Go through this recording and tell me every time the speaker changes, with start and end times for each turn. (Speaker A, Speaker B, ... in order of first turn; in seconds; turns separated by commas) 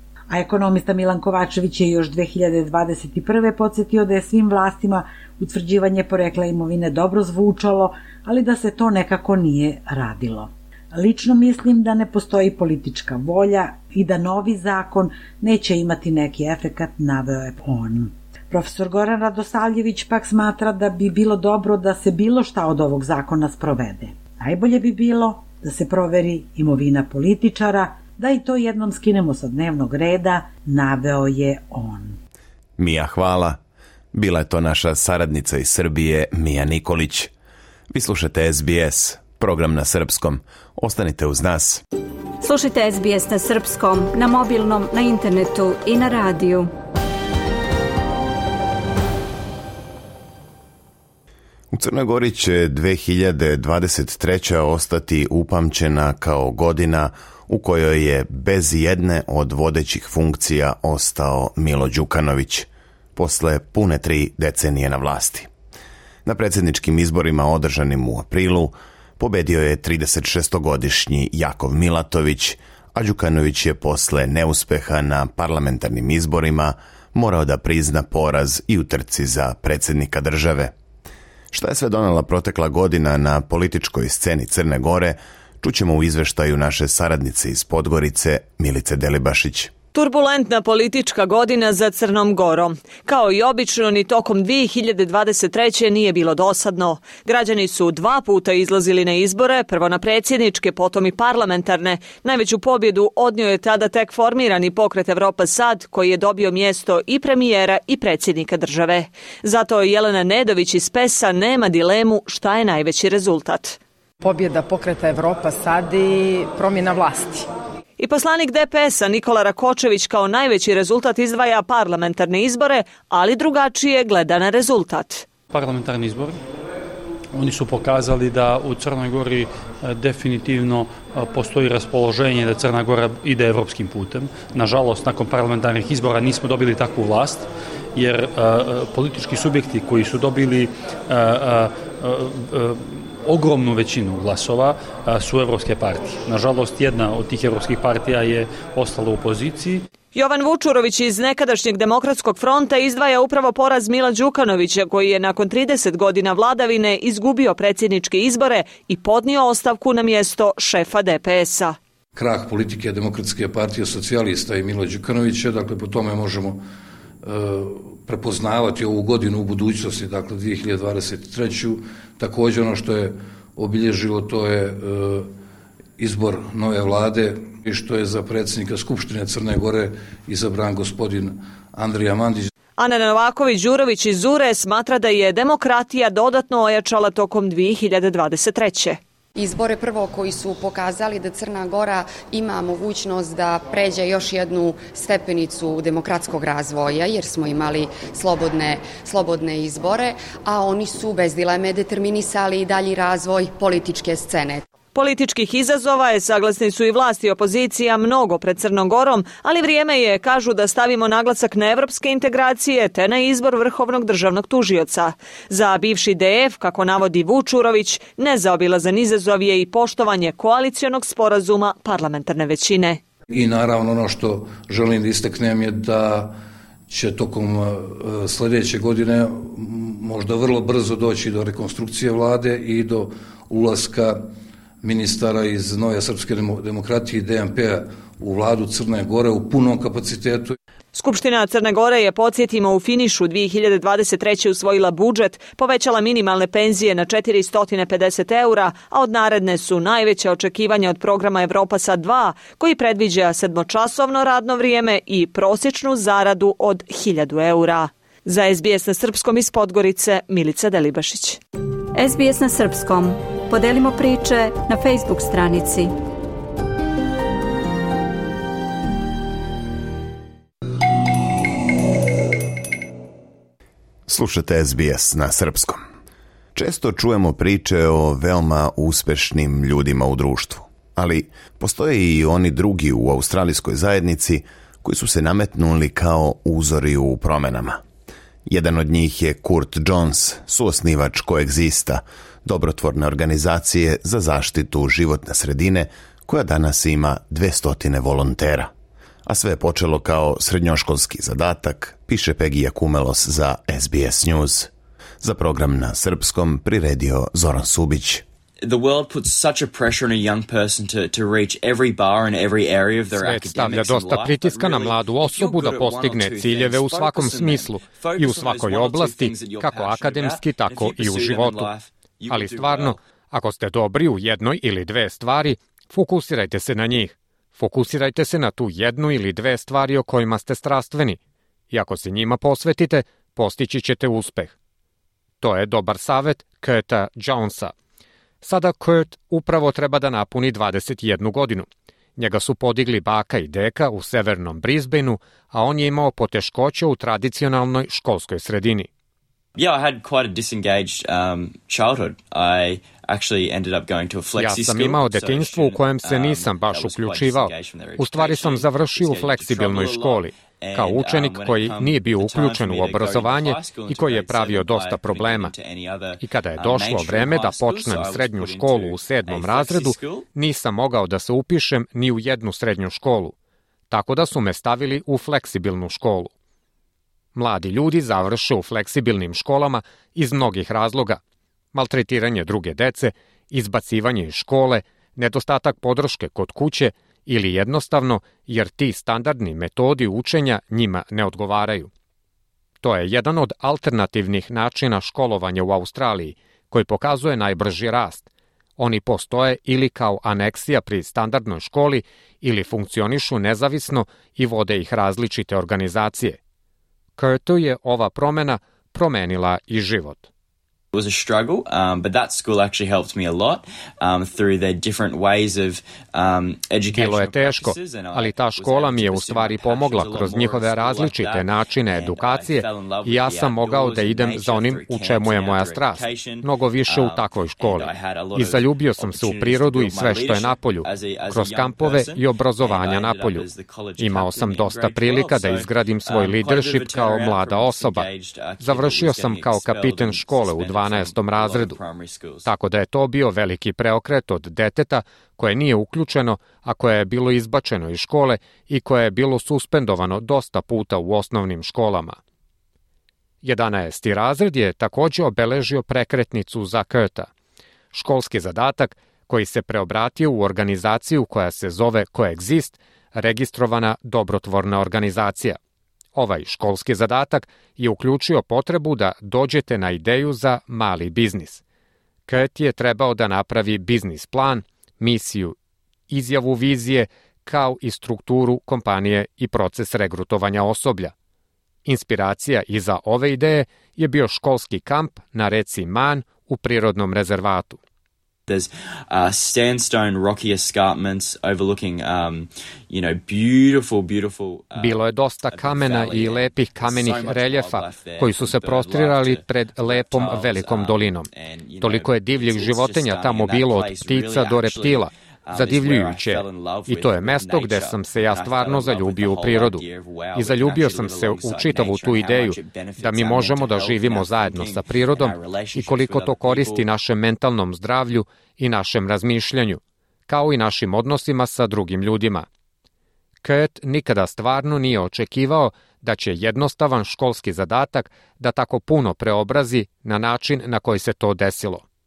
Speaker A: 0.3-32.1, Speaker B: 32.8-33.6, Speaker B: 34.1-37.3, Speaker B: 37.9-41.8, Speaker C: 42.4-46.7, Speaker B: 51.7-65.5, Speaker B: 66.2-80.7, Speaker B: 81.5-89.7, Speaker D: 89.9-113.8, Speaker E: 114.2-117.5, Speaker D: 118.0-125.3, Speaker F: 125.5-126.4, Speaker F: 127.3-149.9, Speaker D: 150.1-161.8, Speaker G: 162.2-166.6, Speaker G: 167.2-175.3, Speaker G: 176.0-182.5, Speaker D: 182.8-189.0, Speaker H: 189.4-204.6, Speaker D: 204.9-223.0, Speaker G: 223.3-226.4, Speaker G: 226.9-234.3, Speaker G: 234.8-240.6, Speaker D: 240.9-261.4, Speaker C: 261.9-265.9, Speaker B: 274.1-275.8, Speaker B: 276.5-287.8, Speaker B: 288.5-298.7, Speaker B: 299.2-304.7, Speaker B: 305.2-308.2, Speaker I: 308.6-323.0, Speaker J: 313.2-321.7, Speaker J: 322.3-331.2, Speaker J: 331.7-334.5, Speaker J: 335.4-337.7, Speaker J: 338.4-348.9, Speaker I: 349.6-370.3, Speaker J: 354.4-365.5, Speaker J: 366.2-373.3, Speaker J: 373.9-376.3, Speaker J: 377.4-381.2, Speaker J: 381.7-391.9, Speaker J: 392.8-398.3, Speaker J: 398.8-406.4, Speaker J: 407.2-410.3, Speaker I: 410.9-442.5, Speaker J: 416.9-433.5, Speaker J: 434.0-438.1, Speaker J: 438.6-441.8, Speaker J: 442.5-452.2, Speaker J: 453.4-457.3, Speaker J: 457.9-465.6, Speaker J: 466.1-471.6, Speaker J: 472.3-475.5, Speaker J: 476.1-481.1, Speaker J: 481.9-487.8, Speaker I: 488.5-516.9, Speaker J: 494.8-501.3, Speaker J: 501.8-509.8, Speaker J: 510.4-522.5, Speaker J: 523.4-531.8